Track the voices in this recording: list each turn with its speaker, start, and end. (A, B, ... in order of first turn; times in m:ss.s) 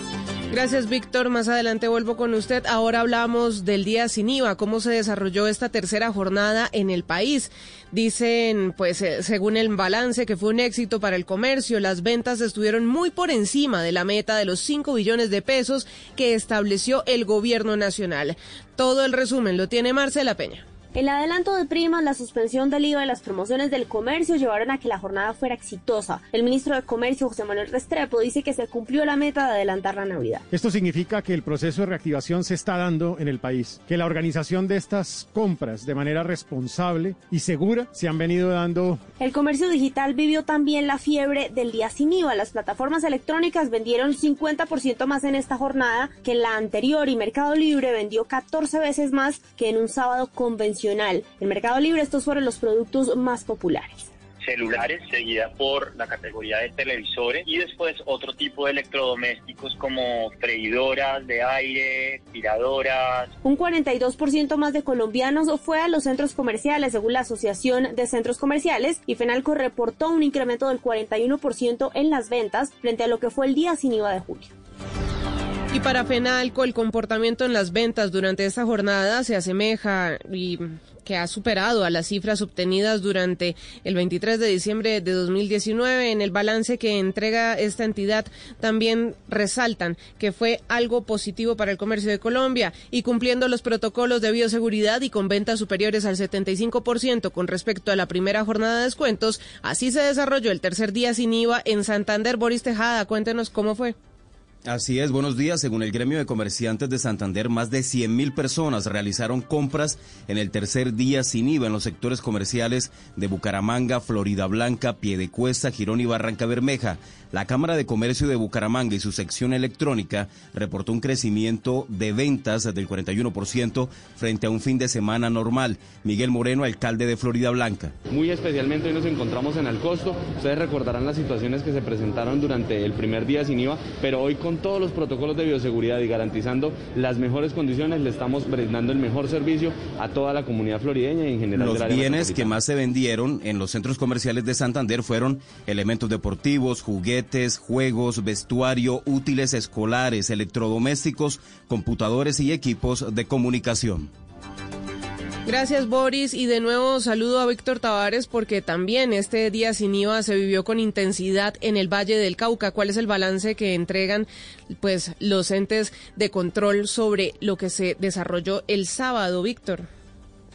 0:00.5-0:20.6 A
0:21.0-0:30.4 B
0:30.5-0:39.0 C
0:39.2-0:54.1 B
0:54.5-1:03.3 D
1:03.4-1:14.5 B
1:15.7-1:44.0 A
1:44.7-2:07.9 E
2:08.1-2:22.6 F
2:21.6-2:34.1 E
2:35.5-2:49.9 A